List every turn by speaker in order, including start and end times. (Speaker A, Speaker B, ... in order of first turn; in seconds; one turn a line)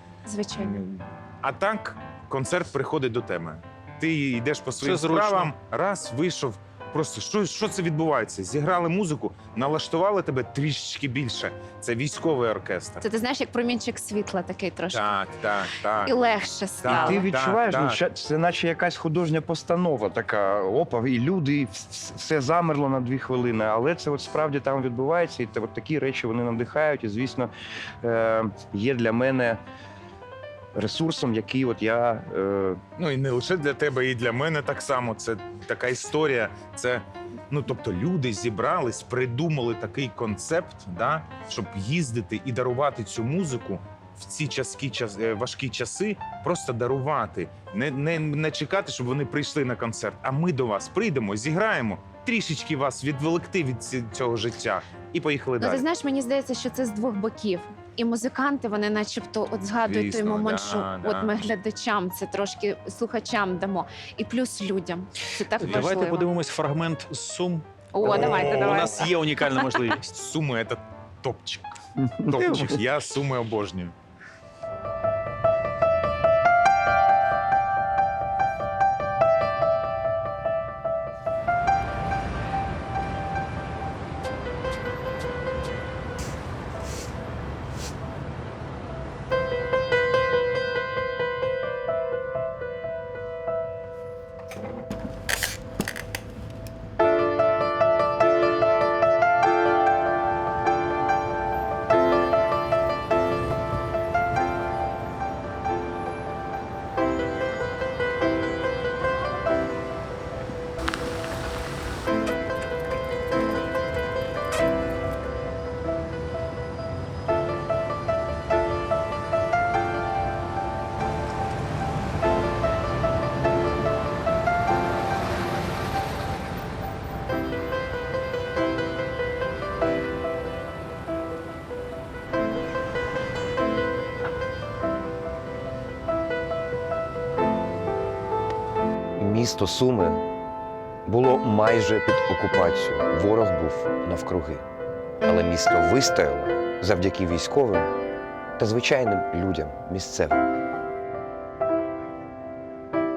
Speaker A: 0.2-0.8
Speaker B: 0.6-13.0
Speaker C: 4.8-5.5
Speaker A: 13.0-15.1
Speaker B: 14.9-16.1
Speaker A: 16.1-17.2
Speaker B: 16.8-18.0
Speaker D: 16.9-27.5
Speaker D: 28.0-29.6
Speaker D: 30.8-32.8
Speaker B: 33.0-55.8
Speaker A: 55.6-66.3
Speaker B: 59.6-61.3
Speaker C: 65.6-70.1
Speaker A: 67.9-69.1
Speaker B: 68.0-69.1
Speaker B: 70.1-71.8
Speaker D: 72.0-72.8
Speaker B: 72.3-73.9
Speaker E: 139.2-140.2
Speaker E: 141.1-144.6
Speaker E: 145.2-147.9
Speaker E: 148.6-150.4